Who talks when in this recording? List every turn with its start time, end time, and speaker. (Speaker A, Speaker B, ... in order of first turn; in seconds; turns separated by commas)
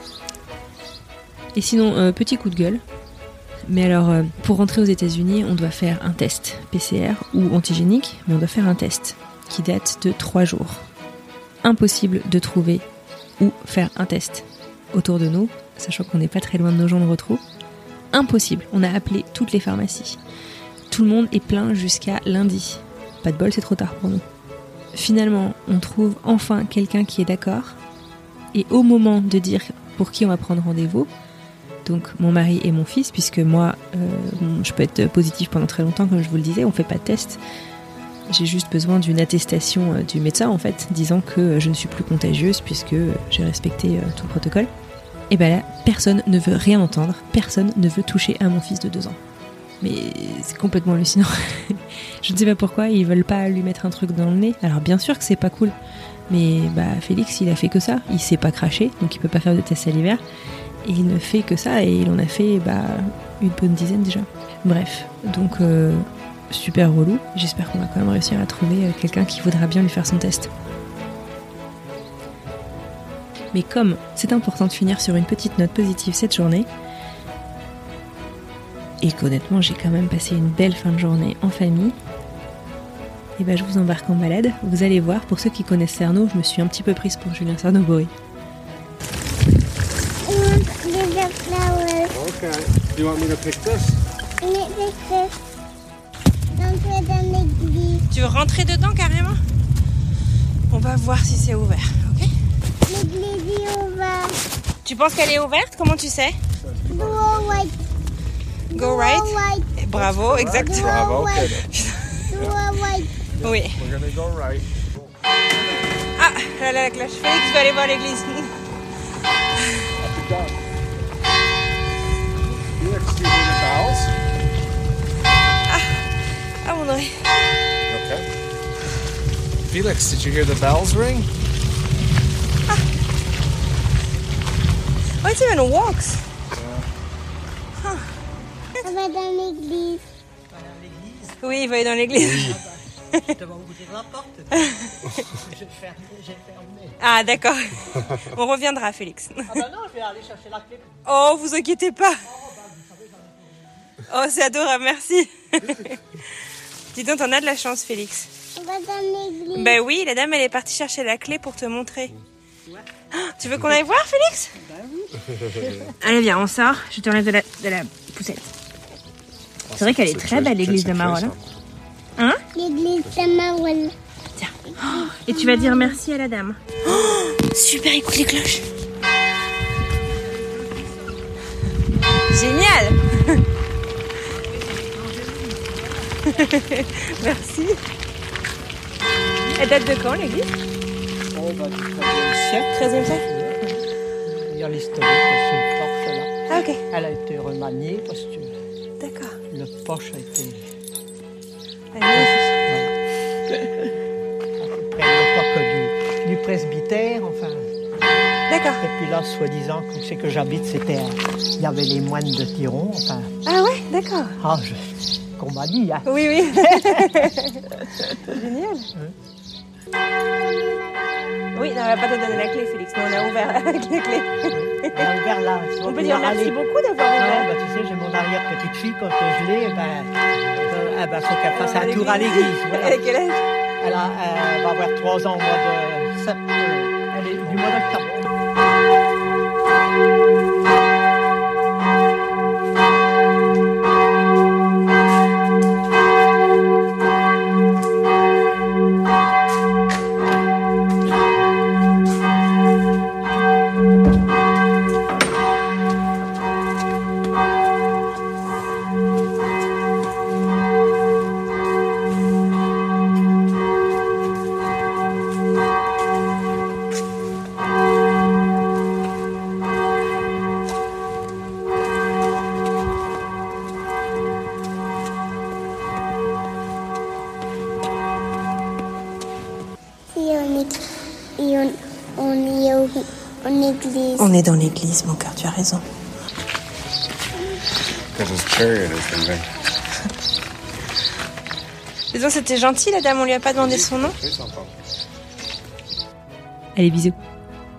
Speaker A: 1.5-2.8, Speaker A: 3.6-10.9, Speaker A: 11.6-12.8, Speaker A: 13.4-17.4, Speaker A: 18.1-20.2, Speaker A: 20.9-24.2, Speaker A: 24.9-27.8, Speaker A: 28.5-31.1, Speaker A: 31.8-37.4, Speaker A: 38.3-44.7, Speaker A: 45.3-49.2, Speaker A: 49.8-55.8, Speaker A: 56.3-60.2, Speaker A: 60.8-70.5, Speaker A: 73.5-76.7, Speaker A: 79.0-82.0, Speaker A: 83.4-88.1, Speaker B: 90.2-92.1, Speaker C: 92.2-93.9, Speaker B: 94.4-95.3, Speaker B: 96.5-98.0, Speaker D: 98.1-99.4, Speaker D: 100.7-102.3, Speaker B: 102.9-104.4, Speaker D: 104.8-106.4, Speaker C: 106.6-107.5, Speaker B: 106.9-107.7, Speaker B: 108.7-109.7, Speaker D: 108.7-111.0, Speaker C: 110.0-111.5, Speaker B: 110.5-111.5, Speaker D: 111.6-112.2, Speaker B: 112.3-113.1, Speaker D: 113.4-113.8, Speaker C: 113.8-114.7, Speaker D: 116.2-118.5, Speaker C: 120.1-120.5, Speaker C: 122.8-124.1, Speaker D: 125.7-126.0, Speaker D: 126.6-127.3, Speaker C: 127.9-128.2, Speaker C: 129.6-131.3, Speaker D: 135.2-136.2, Speaker C: 136.5-136.8, Speaker B: 138.8-140.0, Speaker E: 140.5-141.3, Speaker D: 141.4-142.6, Speaker E: 142.5-142.8, Speaker E: 143.3-144.7, Speaker D: 144.6-144.8, Speaker E: 145.3-147.0, Speaker D: 147.0-149.6, Speaker E: 149.5-150.9, Speaker D: 151.1-152.3, Speaker E: 152.3-153.7, Speaker D: 154.1-156.0, Speaker D: 156.9-158.3, Speaker B: 158.6-159.8, Speaker D: 159.5-162.1, Speaker D: 163.1-164.5, Speaker D: 166.0-168.5, Speaker D: 169.7-171.4, Speaker C: 170.5-171.3, Speaker D: 172.2-172.4, Speaker B: 172.5-173.9, Speaker D: 174.4-178.6, Speaker B: 174.9-175.9, Speaker D: 182.3-183.4, Speaker D: 186.3-187.8, Speaker D: 189.6-190.5, Speaker E: 191.4-193.6, Speaker D: 192.5-193.3, Speaker E: 194.4-196.3, Speaker D: 196.5-196.8, Speaker E: 196.9-198.5, Speaker D: 199.0-199.4, Speaker E: 199.5-200.6, Speaker D: 201.9-202.6, Speaker E: 202.1-202.9, Speaker E: 204.6-207.7, Speaker D: 208.5-208.8, Speaker E: 208.8-213.3, Speaker D: 213.4-214.4, Speaker E: 214.4-214.9, Speaker E: 215.4-217.2, Speaker D: 216.0-218.9, Speaker B: 220.3-221.3, Speaker D: 221.5-225.1, Speaker E: 224.5-226.6, Speaker D: 225.8-227.5, Speaker E: 227.1-233.0, Speaker D: 231.5-233.4, Speaker E: 233.8-238.3, Speaker B: 280.1-280.8, Speaker B: 281.4-284.2, Speaker A: 284.2-285.8, Speaker C: 288.1-289.4, Speaker A: 292.1-294.1, Speaker C: 293.7-294.7, Speaker A: 296.7-297.1